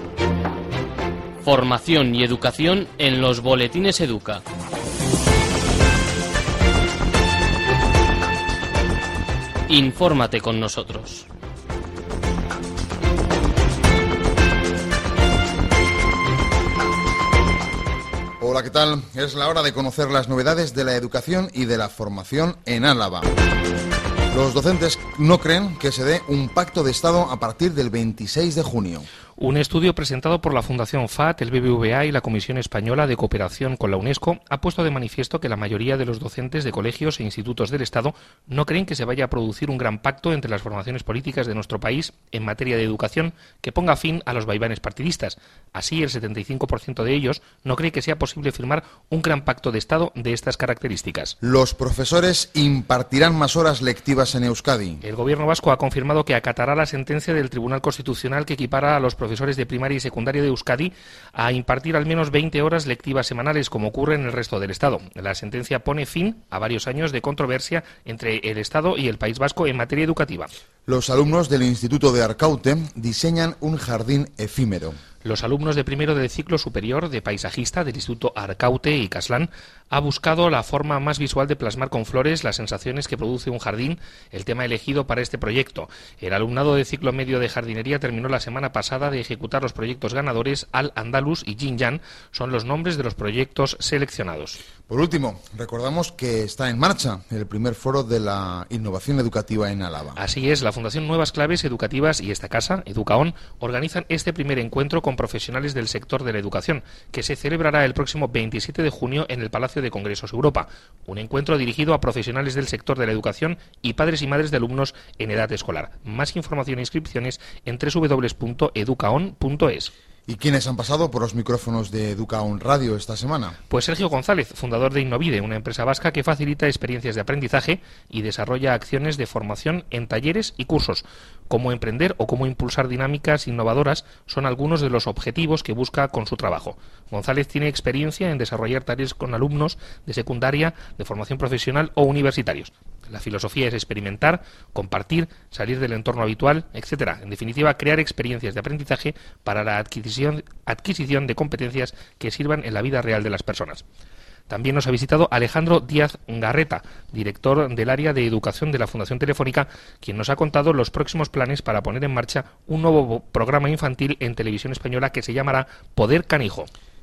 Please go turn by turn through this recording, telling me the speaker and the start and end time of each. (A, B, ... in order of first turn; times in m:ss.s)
0:01.4-0:04.4 A
0:09.7-0:11.2 A
0:18.4-0:23.3 B
0:24.3-0:29.1 B
0:29.4-0:51.3 C
0:51.4-0:55.0 B
0:55.0-1:10.5 C
1:10.9-1:15.0 B
1:15.2-1:34.6 C
1:34.9-1:40.2 B
1:40.2-1:59.9 C
2:00.3-2:03.6 B
2:03.7-2:33.8 C
2:34.5-2:46.7 C